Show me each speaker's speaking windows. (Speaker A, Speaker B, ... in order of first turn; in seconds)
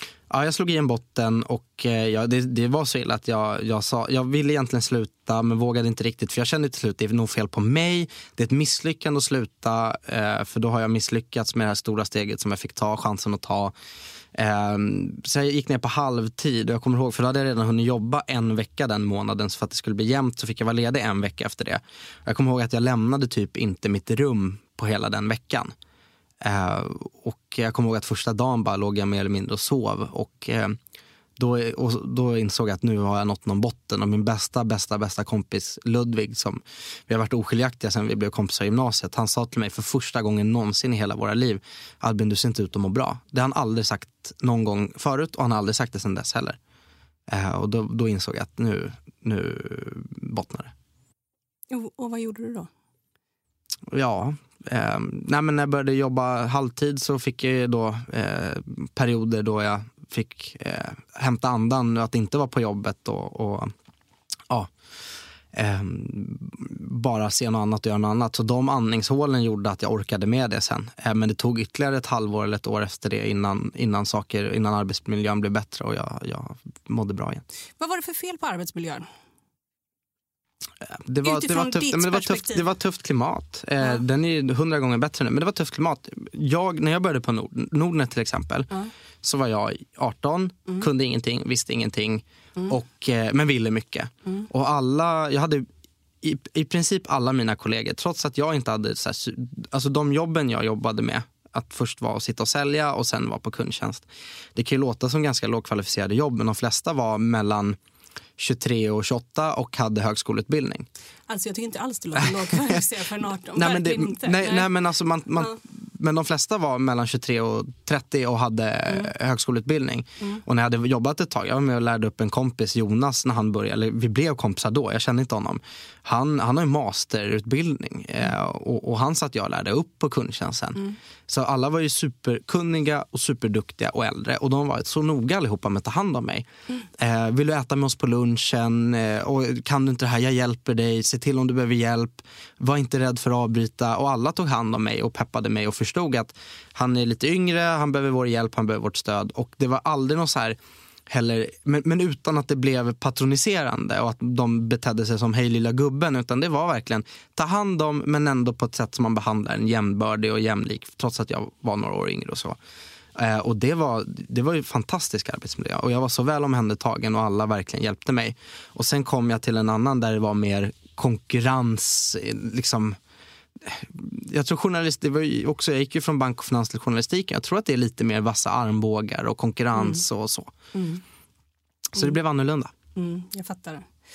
Speaker A: 0.3-13.7, 14.3-25.8, 26.4-30.8, 31.4-46.6, 47.3-50.7, 53.9-63.7, 65.5-77.5, 80.9-88.7, 89.2-95.7, 96.2-107.8, 108.4-110.9, 112.2-112.8, 113.5-150.6, 151.1-162.6, 163.2-173.0, 173.6-180.5, 181.9-182.7
Speaker B: 51.7-52.7, 77.8-79.1, 81.2-82.7, 111.3-114.7, 179.8-180.0, 180.7-181.0, 182.9-183.9